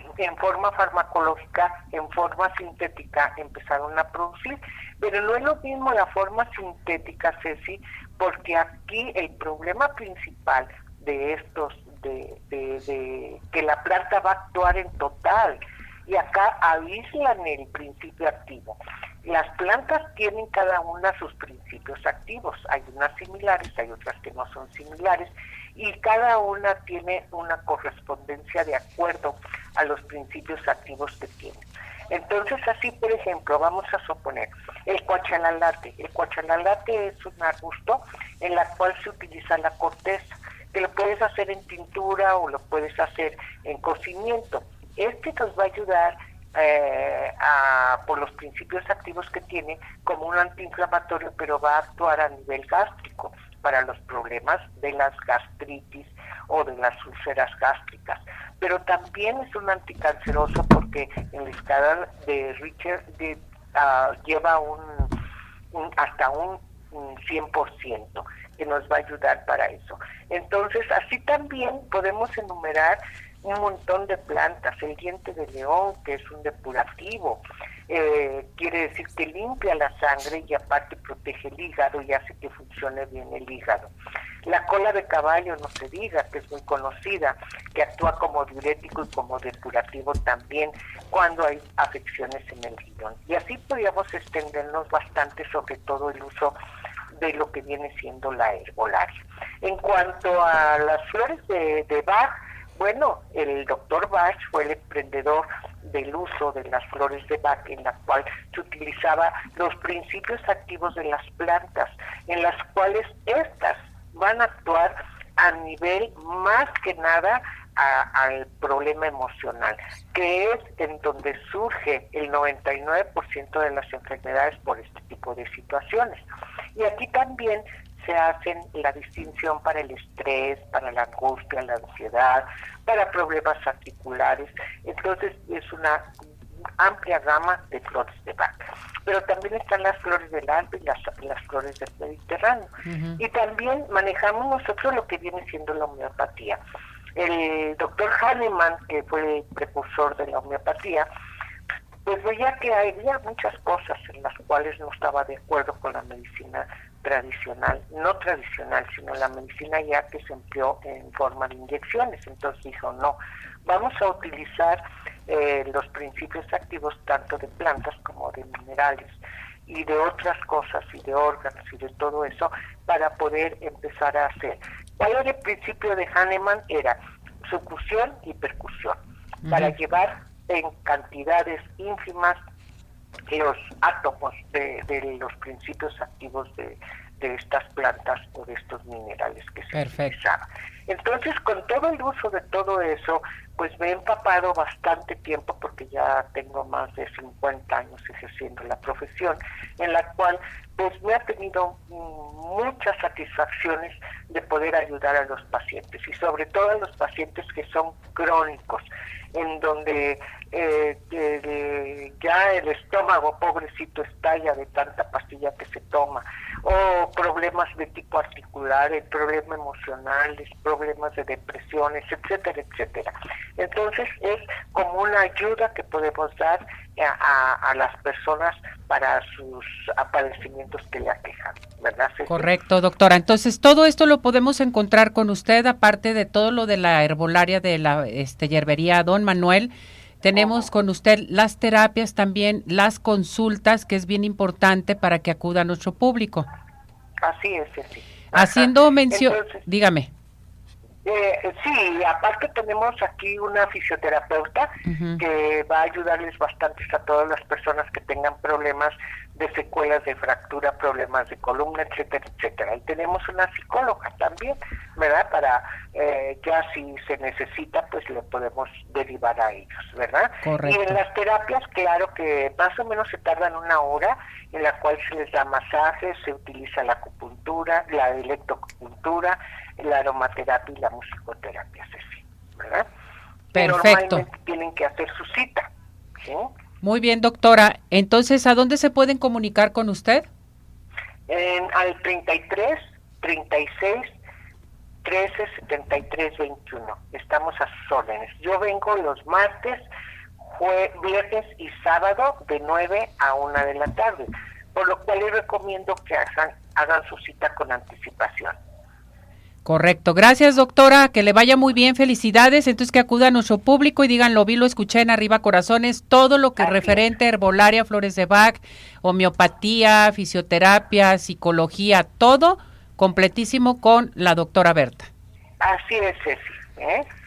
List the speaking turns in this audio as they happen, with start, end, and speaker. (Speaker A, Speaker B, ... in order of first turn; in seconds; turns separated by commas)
Speaker A: 0.2-65.1, Speaker A: 65.7-83.9, Speaker A: 84.4-96.5, Speaker A: 97.1-126.2, Speaker A: 126.7-136.1, Speaker A: 136.8-146.6, Speaker B: 142.8-143.2, Speaker A: 147.1-151.1, Speaker A: 152.0-182.4, Speaker B: 179.4-179.7, Speaker A: 183.3-232.5, Speaker B: 189.7-190.1, Speaker B: 232.3-246.5, Speaker A: 240.3-240.7, Speaker A: 247.2-249.6, Speaker B: 248.3-250.1, Speaker A: 251.0-282.9, Speaker B: 254.9-255.2, Speaker B: 270.4-271.0, Speaker A: 283.5-286.5, Speaker B: 283.5-284.2, Speaker B: 286.8-290.3, Speaker A: 291.3-294.1, Speaker A: 295.0-299.8, Speaker A: 300.4-308.5, Speaker B: 309.6-325.1, Speaker A: 316.6-317.0, Speaker A: 325.6-327.0